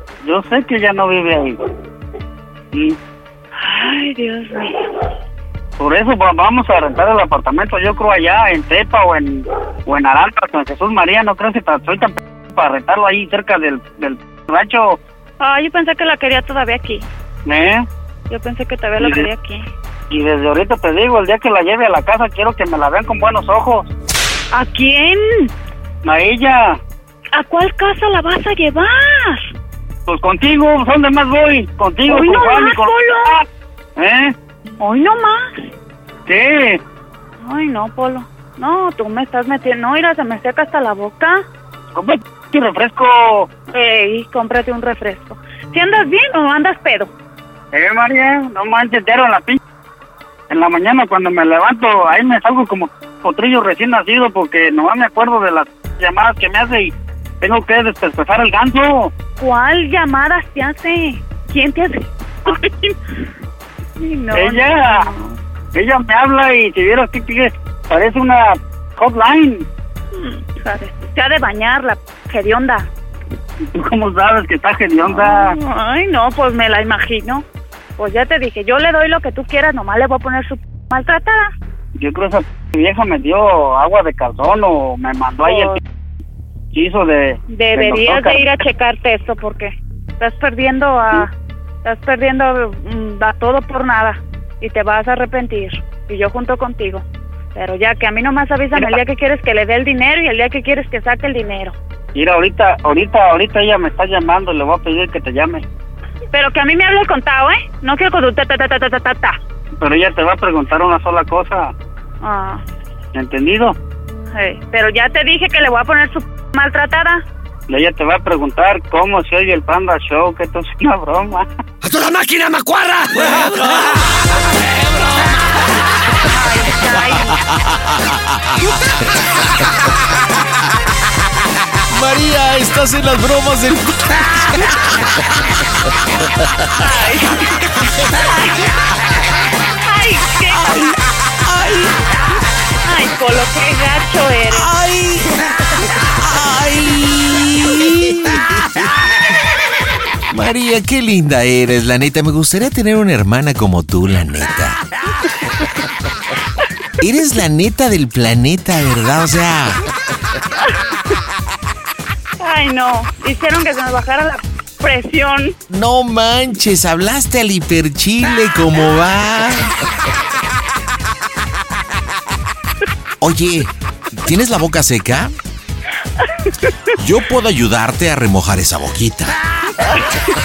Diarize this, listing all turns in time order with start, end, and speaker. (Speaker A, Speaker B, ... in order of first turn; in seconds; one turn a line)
Speaker A: 0.2-1.6
Speaker B: 3.6-4.9
Speaker A: 5.8-15.0
Speaker B: 15.4-17.0
Speaker A: 17.4-17.8
Speaker B: 18.3-19.6
Speaker A: 19.0-19.3
Speaker A: 20.1-23.9
Speaker B: 24.5-25.5
Speaker A: 26.0-26.8
Speaker B: 27.3-29.5
Speaker A: 30.1-33.4
Speaker B: 32.0-33.4
Speaker A: 34.0-34.3
Speaker B: 34.8-35.6
Speaker A: 36.3-36.8
Speaker B: 37.4-41.4
Speaker A: 41.9-43.5
Speaker B: 43.7-47.1
Speaker A: 47.7-49.6
Speaker A: 50.5-59.1
Speaker B: 59.4-62.9
Speaker B: 64.0-65.3
Speaker A: 64.3-65.1
Speaker A: 65.7-69.6
Speaker B: 70.1-72.9
Speaker A: 73.7-75.6
Speaker B: 75.0-77.4
Speaker B: 78.0-81.5
Speaker A: 82.0-85.8
Speaker B: 85.4-85.8
Speaker A: 86.7-88.6
Speaker B: 87.5-91.3
Speaker B: 91.8-97.0
Speaker B: 97.5-101.8
Speaker A: 102.1-105.6
Speaker B: 106.3-109.4
Speaker A: 109.8-111.7
Speaker B: 112.2-112.6
Speaker A: 113.1-113.8
Speaker B: 114.3-117.2
Speaker A: 117.7-121.5
Speaker C: 121.8-123.9
Speaker C: 124.6-125.3
Speaker B: 126.2-127.4
Speaker D: 127.3-128.9
Speaker D: 131.9-135.2
Speaker B: 136.7-137.7
Speaker B: 139.8-140.9
Speaker D: 140.6-142.0
Speaker B: 142.8-144.7
Speaker D: 144.5-145.3
Speaker D: 146.1-148.8
Speaker D: 150.3-154.8
Speaker D: 157.0-159.8
Speaker B: 162.4-165.6
Speaker D: 165.7-169.8
Speaker D: 173.2-175.3
Speaker D: 177.0-179.4